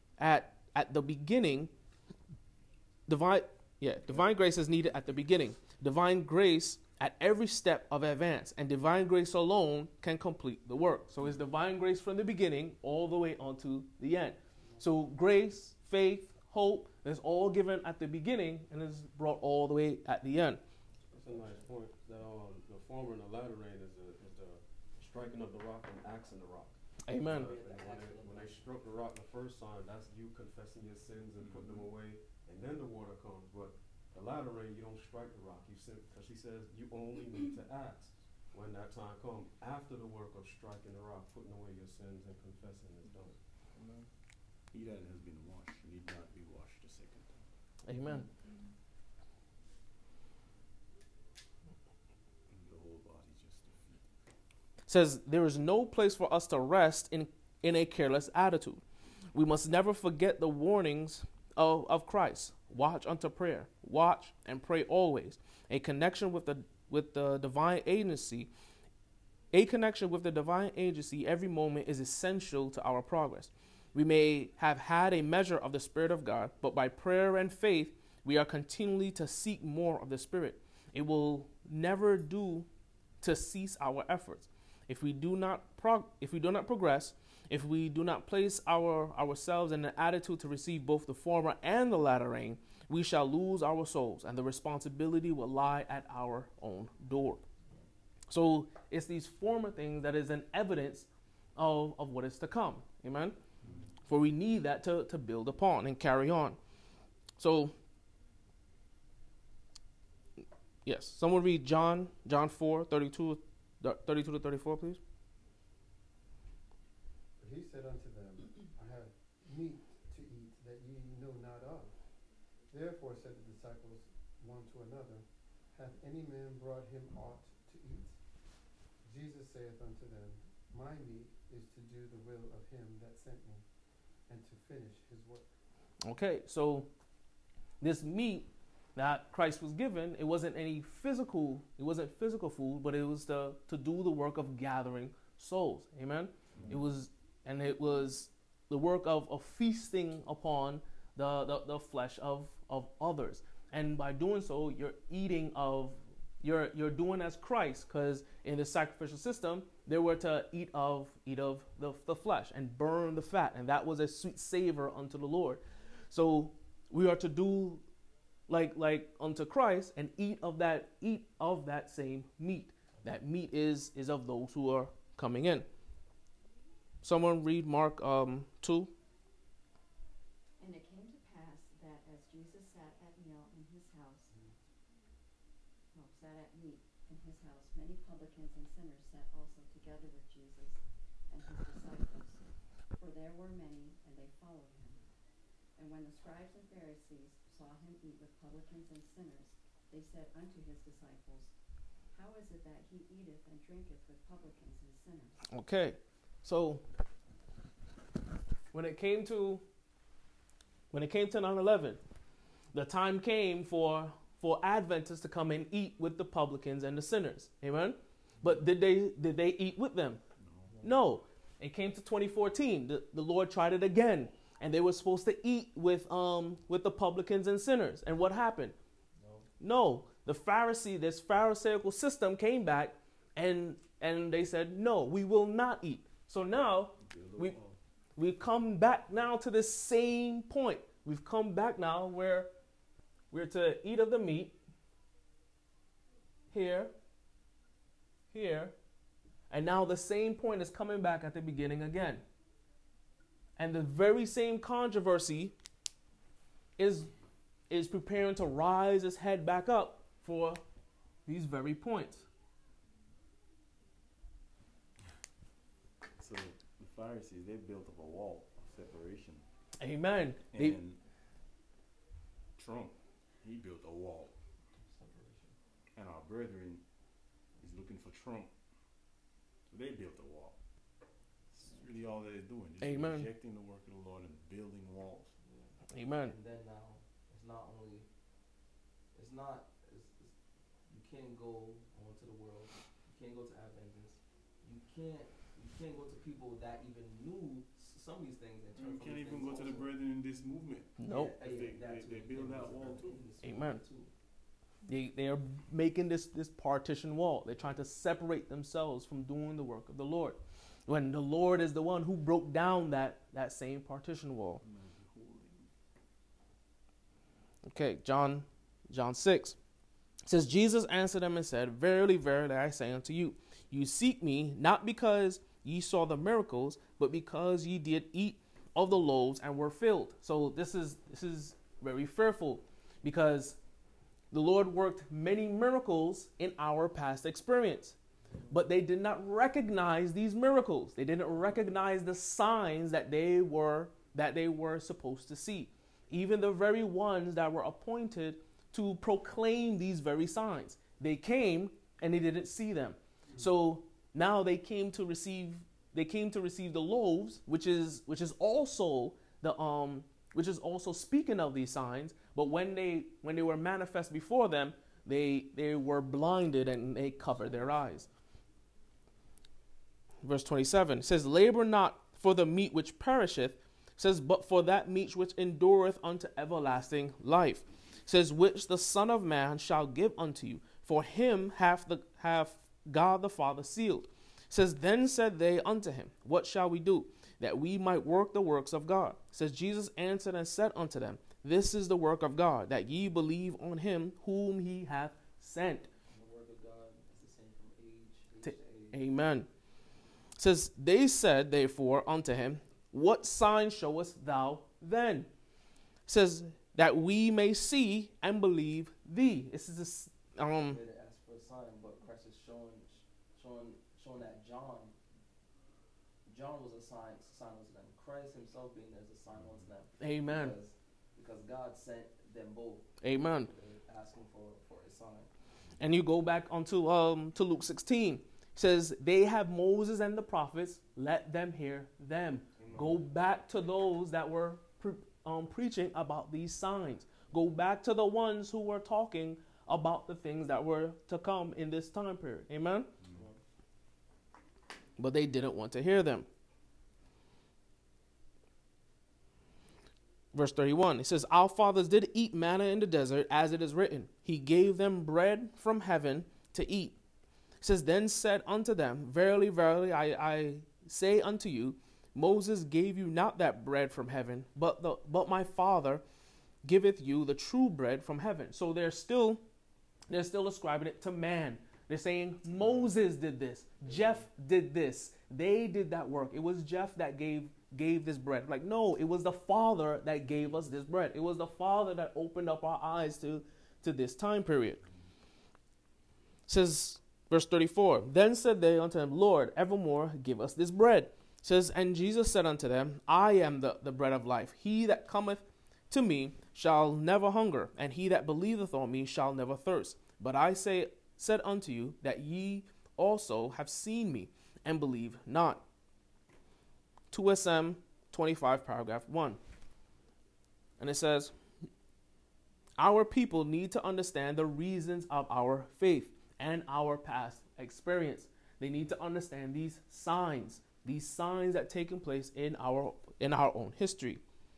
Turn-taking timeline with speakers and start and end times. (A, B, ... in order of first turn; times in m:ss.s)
0:00.2-0:01.7 A
0:03.1-0:20.6 A
0:21.1-0:21.7 B
0:21.1-0:26.8 C
0:27.0-0:27.5 A
0:27.3-0:43.4 C
0:27.3-0:28.6 B
0:31.5-0:31.8 D
0:43.7-0:44.1 B
0:44.7-0:47.5 D
0:47.8-0:48.3 A
0:52.5-0:54.0 D
0:54.9-1:08.5 A
1:09.5-1:22.7 A
1:23.2-1:37.4 A
1:38.3-1:43.4 A
1:43.6-1:43.9 D
1:44.0-1:46.6 A
1:47.4-1:47.7 A
1:50.8-1:55.0 A
1:57.4-2:08.2 E
2:09.0-2:13.6 E
2:14.2-2:15.5 E
2:16.0-2:16.9 A
2:17.8-2:47.8 A
2:48.5-2:55.7 A
2:57.0-2:58.9 A
3:00.6-3:04.3 F
3:05.9-3:15.0 F
3:15.7-3:21.5 F
3:22.0-3:25.4 F
3:25.5-3:26.8 A
3:28.7-3:29.6 A
3:30.9-3:32.0 A
3:32.7-3:40.2 A
3:40.4-3:40.7 D
3:40.6-3:41.0 B
3:40.8-3:48.8 A
3:49.2-3:49.5 B
3:49.6-3:57.6 A
3:57.0-3:57.8 D
3:58.2-4:02.5 A
4:03.3-4:04.6 A
4:06.5-4:06.9 A
4:08.3-4:08.7 A
4:09.5-4:12.2 A
4:13.6-4:15.5 A
4:16.8-4:17.1 A
4:17.7-4:20.6 A
4:21.2-4:22.2 A
4:26.2-4:29.4 D
4:29.8-4:30.8 A
4:30.5-4:31.0 D
4:32.6-4:34.4 D
4:34.8-4:35.6 B
4:35.9-4:36.8 D
4:37.6-4:38.5 D
4:39.7-4:40.6 D
4:41.5-4:45.4 D
4:42.8-4:43.3 A
4:45.4-4:48.1 B
4:45.9-4:46.3 A
4:49.1-4:50.4 B
4:50.9-4:59.9 B
4:58.7-5:03.2 D
5:01.0-5:01.3 A
5:01.0-5:04.1 B
5:03.4-5:03.8 A
5:04.9-5:14.6 A
5:14.6-5:15.7 D
5:17.6-5:19.6 A
5:20.2-5:33.6 A
5:34.3-5:38.0 A
5:38.3-5:38.6 B
5:38.5-6:08.0 A
6:07.3-6:08.0 B
6:10.2-6:35.9 A
6:36.1-6:39.0 B
6:38.4-6:39.5 A
6:40.4-6:45.3 A
6:46.1-6:50.8 A
6:50.6-6:55.0 B
6:56.2-7:05.3 B
7:00.0-7:00.6 A
7:03.0-7:03.5 A
7:05.8-7:22.9 A
7:12.6-7:13.0 D
7:23.0-7:23.2 D
7:23.1-7:23.4 B
7:25.0-7:26.3 A
7:30.3-7:37.0 A
7:37.6-7:46.0 A
7:46.6-7:49.4 A
7:50.1-8:04.8 A
7:52.6-7:52.9 D
7:53.8-7:54.3 B
8:06.5-8:25.6 A
8:27.1-8:29.4 A
8:30.8-8:31.3 A
8:32.8-8:44.2 A